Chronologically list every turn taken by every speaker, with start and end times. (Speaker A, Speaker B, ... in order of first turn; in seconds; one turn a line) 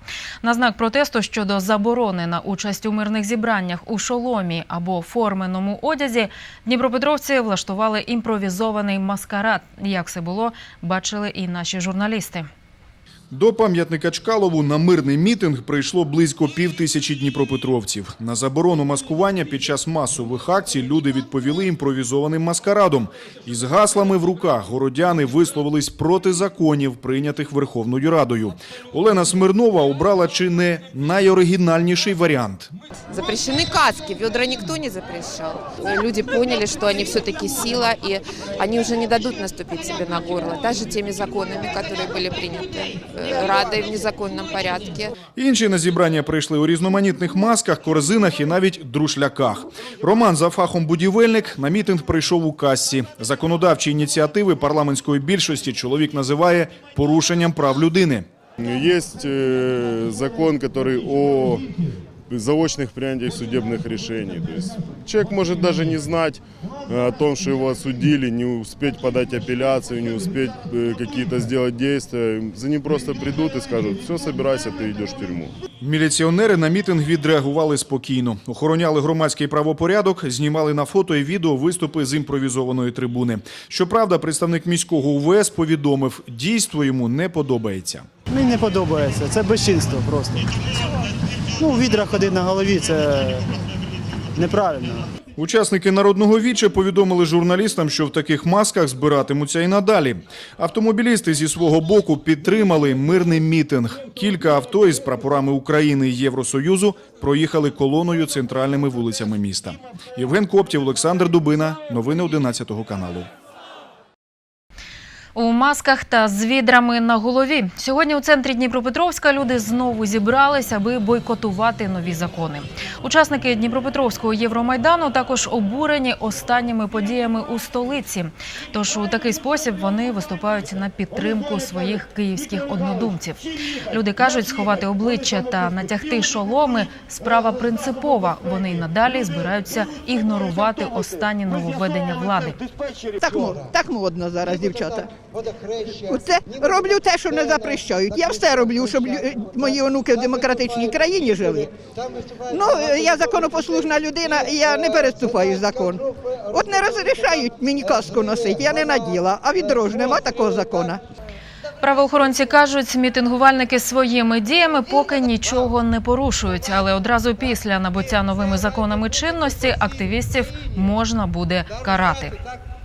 Speaker A: 0.4-12.5
Speaker B: 13.3-32.7
Speaker C: 33.1-45.1
Speaker B: 45.4-58.2
Speaker D: 58.6-61.7
Speaker D: 62.3-75.5
Speaker B: 75.8-88.0
Speaker E: 88.3-90.5
Speaker E: 91.6-93.5
Speaker E: 94.3-95.1
Speaker B: 95.4-113.3
Speaker A: 115.3-142.6
Speaker F: 143.2-145.1
Speaker F: 146.0-151.7
Speaker F: 152.5-161.0
Speaker A: 161.8-172.3